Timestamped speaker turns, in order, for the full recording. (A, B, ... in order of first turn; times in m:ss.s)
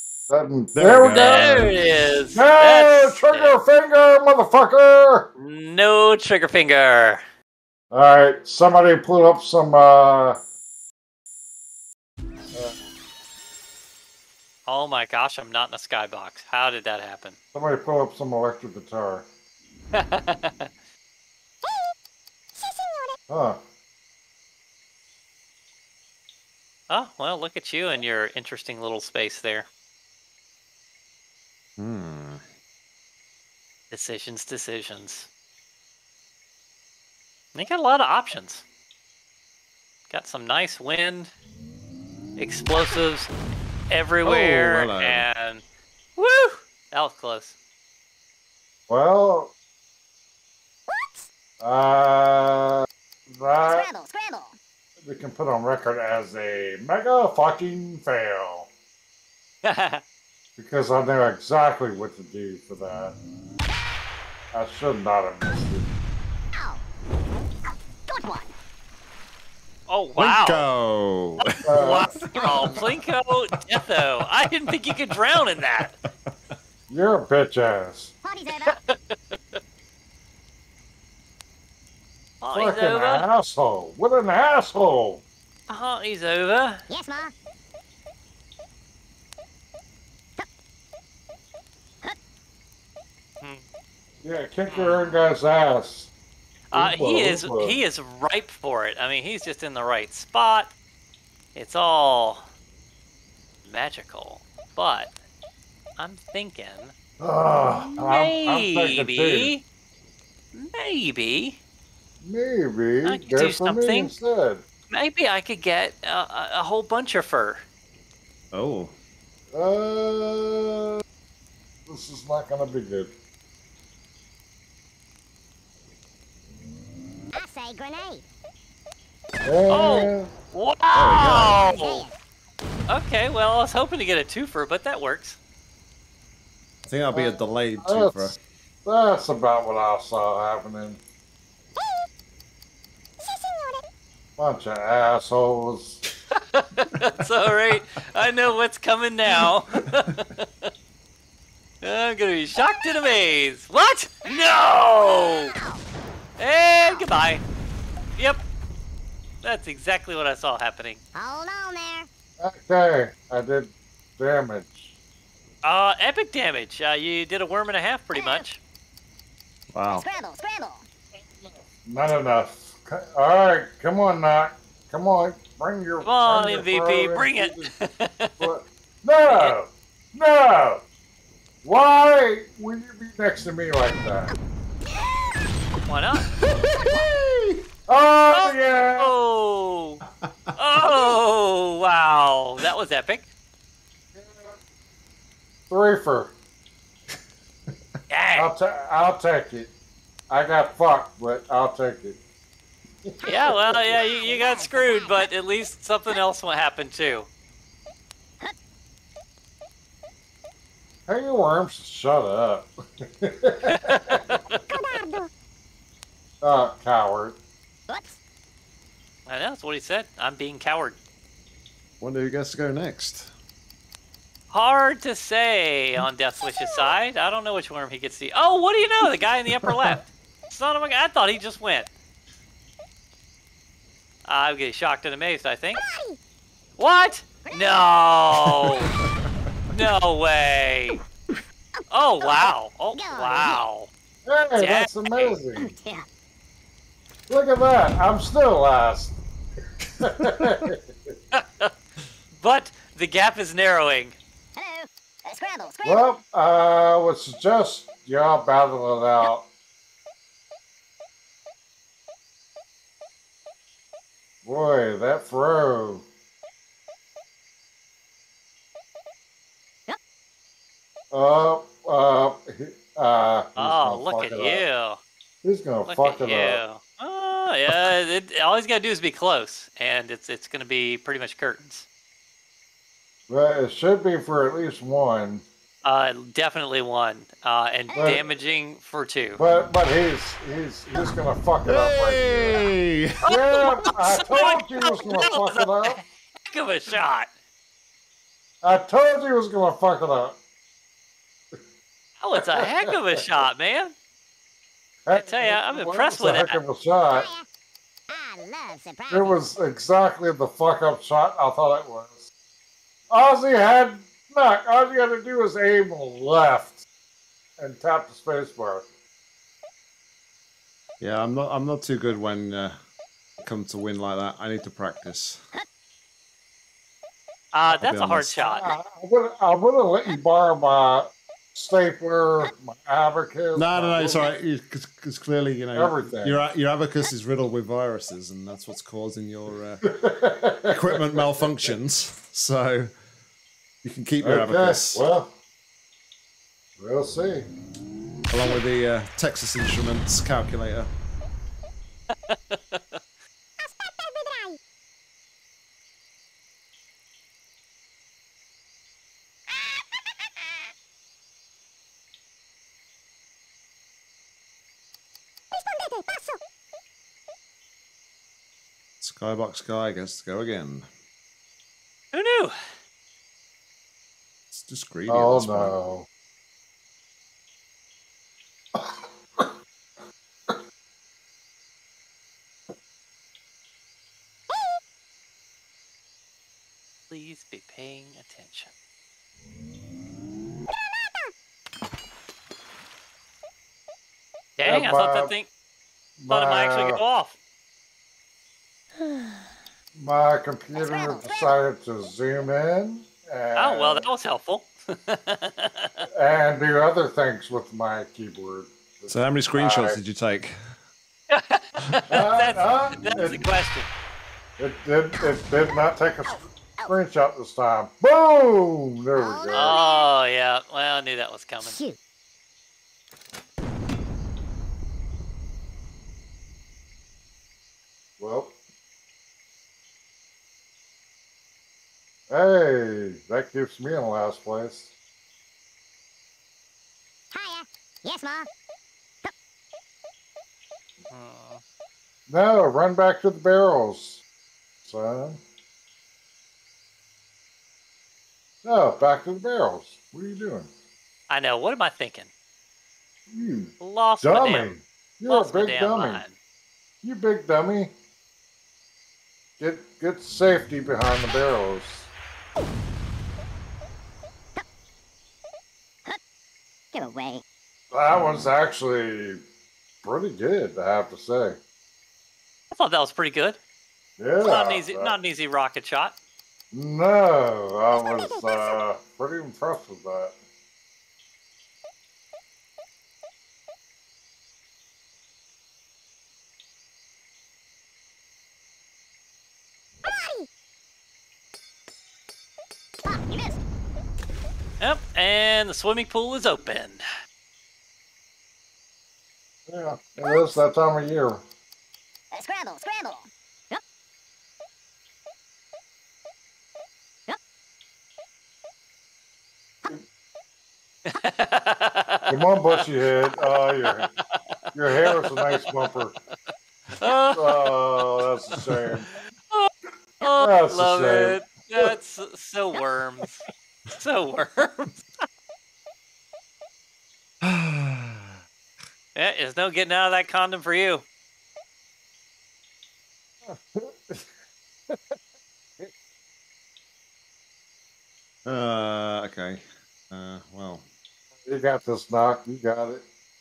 0:00.3-0:01.7 A
0:00.7-0:01.8 B
0:01.1-0:03.6 C
0:02.3-0:05.3 A
0:05.4-0:07.2 C
0:07.9-0:10.4 A
0:14.6-0:17.4 C
0:17.5-0:19.2 A
0:19.9-0:20.7 C
0:21.6-0:21.9 D
0:22.6-0:23.2 D
0:23.3-0:23.6 A
0:26.9-0:29.7 C
0:31.8-0:32.4 B
0:33.9-0:35.3 C
0:37.5-0:38.6 C
0:40.1-0:41.3 C
0:42.4-0:43.3 C
0:43.9-0:45.6 C
0:44.2-0:45.3 B
0:46.2-0:47.5 C
0:48.9-0:49.5 A
0:50.9-0:51.3 D
0:51.6-0:53.9 A
0:53.6-0:54.6 D
0:55.0-0:58.7 A
0:59.6-1:00.0 C
1:00.6-1:03.2 A
1:04.5-1:05.9 A
1:06.5-1:06.8 D
1:08.1-1:08.5 D
1:09.9-1:10.6 C
1:10.2-1:13.0 B
1:11.5-1:15.9 C
1:11.6-1:12.2 A
1:16.9-1:18.1 A
1:18.2-1:18.7 D
1:18.6-1:19.6 C
1:22.4-1:23.2 C
1:22.5-1:25.2 A
1:25.7-1:26.8 C
1:26.9-1:27.3 D
1:34.2-1:36.1 A
1:34.7-1:35.1 C
1:36.7-1:40.7 C
1:36.7-1:37.8 A
1:41.5-1:42.4 C
1:43.6-1:45.1 C
1:46.0-1:46.9 C
1:47.2-1:49.5 A
1:47.8-1:49.6 C
1:50.5-1:51.6 C
1:52.2-1:54.6 A
1:53.0-1:54.1 C
1:54.9-1:57.6 C
1:58.5-1:58.9 B
1:59.5-2:01.0 A
2:01.9-2:03.1 A
2:07.3-2:08.2 D
2:09.4-2:10.3 A
2:09.7-2:12.0 C
2:10.9-2:11.6 B
2:11.6-2:12.2 D
2:12.9-2:15.4 C
2:16.8-2:18.4 B
2:17.1-2:18.3 A
2:18.8-2:21.0 A
2:21.8-2:22.0 D
2:23.2-2:23.8 D
2:24.4-2:26.0 A
2:26.3-2:30.7 C
2:31.8-2:35.5 C
2:35.2-2:35.8 D
2:36.4-2:37.4 C
2:36.8-2:37.1 D
2:38.2-2:38.4 C
2:39.4-2:41.0 C
2:41.1-2:42.1 D
2:42.4-2:44.9 A
2:45.6-2:48.6 C
2:48.1-2:48.4 D
2:49.7-2:50.0 B
2:49.9-2:50.8 D
2:51.4-2:57.7 A
2:56.0-2:58.4 C
2:58.4-3:00.8 A
2:59.3-2:59.6 C
3:01.6-3:04.3 A
3:04.8-3:05.7 D
3:05.8-3:06.2 C
3:06.6-3:07.1 D
3:06.8-3:07.6 B
3:07.9-3:09.1 A
3:08.3-3:10.0 C
3:10.2-3:10.5 B
3:10.6-3:13.3 C
3:14.1-3:14.5 A
3:15.7-3:16.3 A
3:18.1-3:18.5 C
3:18.3-3:19.7 A
3:20.3-3:22.2 A
3:23.2-3:25.3 D
3:23.2-3:27.3 C
3:31.1-3:34.6 A
3:33.6-3:34.4 C
3:34.7-3:35.3 D
3:36.4-3:37.4 A
3:37.9-3:38.2 D
3:39.2-3:41.0 C
3:42.0-3:43.3 B
3:44.5-3:51.9 C
3:46.6-3:46.9 D
3:54.2-3:55.8 C
3:55.8-3:56.2 D
3:56.8-3:58.9 C
3:57.4-3:57.8 D
3:59.0-3:59.3 B
3:59.7-4:01.0 C
4:01.9-4:03.9 C
4:02.2-4:03.6 D
4:04.2-4:05.7 A
4:04.6-4:05.4 C
4:05.6-4:06.0 D
4:07.3-4:09.2 A
4:10.0-4:10.8 A
4:10.0-4:10.4 B
4:11.3-4:11.7 C
4:12.4-4:14.2 C
4:14.6-4:16.1 D
4:15.8-4:19.5 A
4:24.4-4:26.0 A
4:31.1-4:34.6 A
4:33.6-4:35.0 C
4:35.4-4:36.6 A
4:35.8-4:41.9 C
4:43.3-4:45.4 A
4:45.8-4:49.4 C
4:47.9-4:48.2 D
4:47.9-4:48.2 A
4:49.4-4:52.7 A
4:51.6-4:53.2 B
4:53.2-4:56.0 A
4:53.2-4:57.3 C
4:55.0-4:55.2 D
4:58.6-5:00.4 A
5:02.2-5:03.9 C
5:02.4-5:02.7 A
5:05.0-5:07.3 A
5:05.1-5:06.6 C
5:07.1-5:07.4 D
5:08.1-5:09.4 D
5:09.1-5:12.2 A
5:13.1-5:16.8 A
5:17.6-5:18.8 A
5:21.0-5:22.8 B
5:23.4-5:25.4 B
5:27.5-5:28.7 C
5:27.6-5:28.4 B
5:28.4-5:34.3 A
5:33.5-5:39.8 B
5:35.7-5:36.4 A
5:39.8-5:41.3 A
5:40.7-5:42.9 B
5:43.8-5:45.0 B
5:44.2-5:45.3 A
5:46.8-5:47.5 A
5:48.3-5:50.9 B
5:52.1-5:53.0 C
5:53.6-5:54.6 D
6:05.5-6:06.4 D
6:09.0-6:10.8 B
6:12.1-6:12.5 C
6:14.5-6:15.8 B
6:15.1-6:16.0 A
6:18.7-6:19.5 A
6:24.5-6:24.8 D
6:27.1-6:28.7 C
6:31.0-6:31.3 D
6:34.6-6:35.5 C
6:34.6-6:35.3 A
6:36.2-6:37.0 A
6:36.3-6:37.4 C
6:40.0-6:44.1 A
6:40.7-6:41.5 D
6:43.5-6:46.0 C
6:46.1-6:50.0 A
6:49.1-6:50.6 B
6:51.3-6:53.9 C
6:52.1-6:53.4 A
6:54.6-6:59.8 A
6:56.3-6:56.9 D
6:59.2-7:00.1 D
6:59.5-7:01.8 C
7:01.6-7:02.0 D
7:08.2-7:08.6 A
7:12.3-7:14.9 A
7:17.3-7:18.5 D
7:21.1-7:21.6 C
7:22.3-7:24.2 A
7:24.8-7:25.4 A
7:28.6-7:30.7 A
7:31.3-7:32.3 C
7:33.3-7:36.2 A
7:33.8-7:34.7 C
7:35.3-7:36.3 C
7:37.0-7:37.9 A
7:39.6-7:42.1 A
7:41.2-7:41.6 D
7:46.9-7:47.4 D
7:47.9-7:49.4 A
7:50.0-7:51.6 A
7:52.7-7:53.6 C
7:54.2-7:55.2 A
7:54.4-7:56.2 C
7:56.7-8:00.3 A
7:58.0-7:58.8 D
8:10.0-8:10.4 D
8:13.0-8:13.6 D
8:14.8-8:17.0 C
8:19.7-8:21.4 A
8:20.2-8:20.5 D
8:22.3-8:23.8 D
8:31.0-8:32.4 C
8:32.3-8:34.1 A
8:34.2-8:34.6 C
8:34.7-8:36.2 A
8:37.0-8:37.8 C
8:37.3-8:39.1 A
8:39.5-8:43.4 C
8:40.4-8:41.9 A
8:44.0-8:45.0 C
8:47.4-8:48.4 B
8:49.1-8:51.0 C
8:53.4-8:54.2 A
8:54.9-8:55.2 A
8:58.4-9:00.8 B
9:01.4-9:03.0 A